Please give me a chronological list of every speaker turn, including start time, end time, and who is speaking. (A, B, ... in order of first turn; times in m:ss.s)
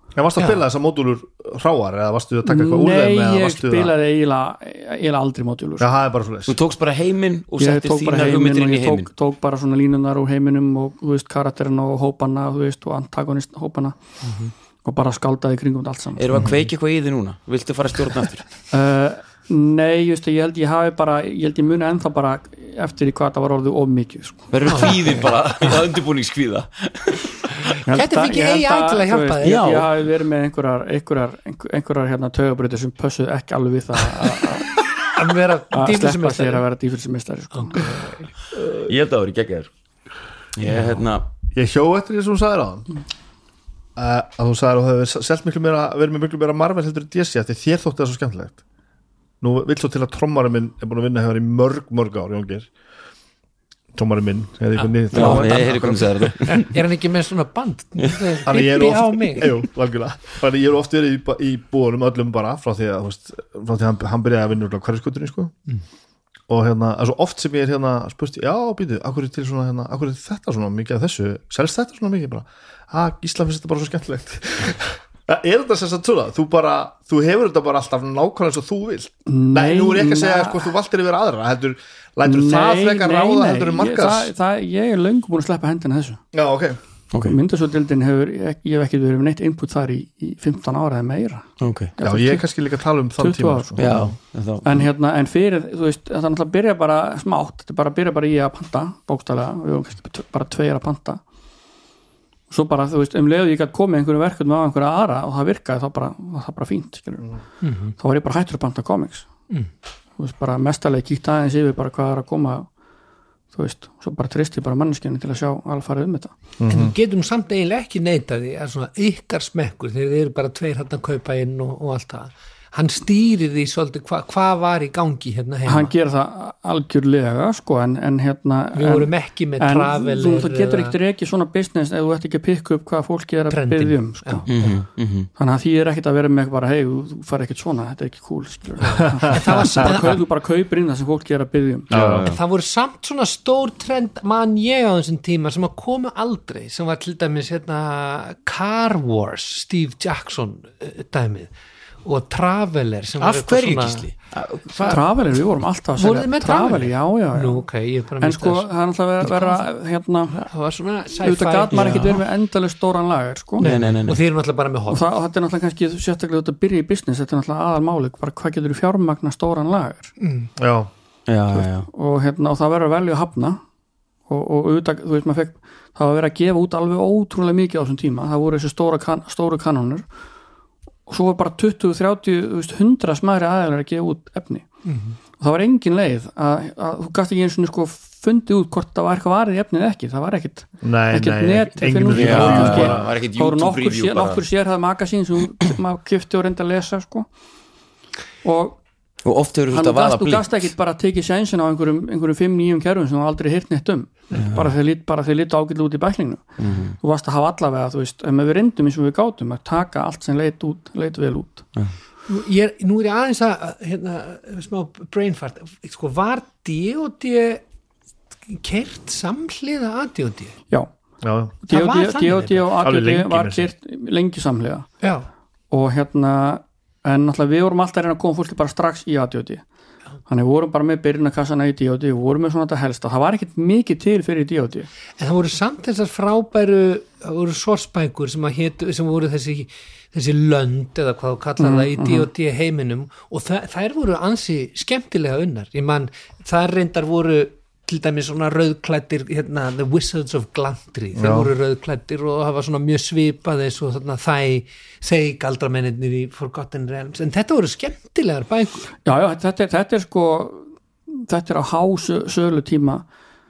0:00.2-0:03.9 A
0:00.4-0:00.6 B
0:02.4-0:05.9 C
0:05.8-0:06.6 A
0:06.5-0:09.1 D
0:07.6-0:13.9 C
0:14.2-0:14.5 B
0:14.8-0:16.2 C
0:16.2-0:18.5 D
0:16.3-0:16.6 A
0:18.7-0:24.9 C
0:24.5-0:27.7 D
0:24.6-0:25.4 B
0:27.8-0:34.7 C
0:27.9-0:29.8 B
0:29.4-0:29.9 D
0:35.1-0:36.6 B
0:35.7-0:38.0 C
0:37.6-0:38.3 B
0:38.7-0:39.7 D
0:40.5-0:41.2 D
0:41.5-0:42.9 A
0:44.0-0:48.6 A
0:49.4-0:52.7 A
0:53.9-0:56.3 A
0:54.8-0:59.5 B
0:55.1-0:56.8 D
0:58.0-0:58.3 D
0:58.4-1:05.5 A
1:06.5-1:24.3 A
1:19.2-1:20.7 C
1:22.2-1:26.2 C
1:26.3-1:26.8 A
1:27.2-1:32.5 C
1:31.6-1:31.9 D
1:32.0-1:34.0 A
1:33.2-1:34.0 C
1:33.8-1:34.9 D
1:34.6-1:41.2 C
1:42.5-1:47.3 C
1:47.6-1:47.9 B
1:48.0-1:49.3 C
1:50.2-1:52.7 C
1:53.5-1:56.3 C
1:56.6-1:56.9 A
1:56.7-2:05.9 B
2:05.6-2:14.5 C
2:08.7-2:11.0 B
2:13.5-2:14.8 B
2:14.5-2:15.3 D
2:15.4-2:21.9 C
2:18.8-2:20.2 B
2:19.2-2:19.9 A
2:21.9-2:22.3 A
2:21.9-2:22.4 D
2:22.2-2:31.5 B
2:32.0-2:34.1 B
2:33.2-2:35.0 D
2:34.8-2:37.6 C
2:36.0-2:38.7 B
2:38.2-2:40.4 C
2:39.2-2:39.7 B
2:40.3-2:42.2 B
2:41.2-2:43.7 C
2:41.7-2:42.2 D
2:43.6-2:45.0 B
2:43.6-2:44.2 D
2:44.9-2:50.1 C
2:50.2-2:50.5 B
2:50.6-2:50.9 A
2:51.3-2:51.9 D
2:51.5-2:53.6 C
2:54.3-3:00.0 C
3:01.1-3:04.7 C
3:04.8-3:05.2 B
3:05.4-3:17.3 C
3:10.8-3:13.1 A
3:12.1-3:14.4 D
3:18.4-3:18.8 C
3:19.2-3:20.7 D
3:19.7-3:31.7 C
3:24.3-3:24.7 D
3:26.6-3:27.0 D
3:32.3-3:37.6 B
3:38.5-3:40.6 B
3:41.2-3:41.6 A
3:41.6-3:44.9 C
3:41.7-3:42.7 B
3:42.8-3:43.7 A
3:45.0-3:45.3 B
3:45.7-3:49.6 C
3:50.3-3:54.9 C
3:55.2-4:18.9 B
4:01.6-4:02.3 C
4:11.1-4:11.5 A
4:19.0-4:23.0 C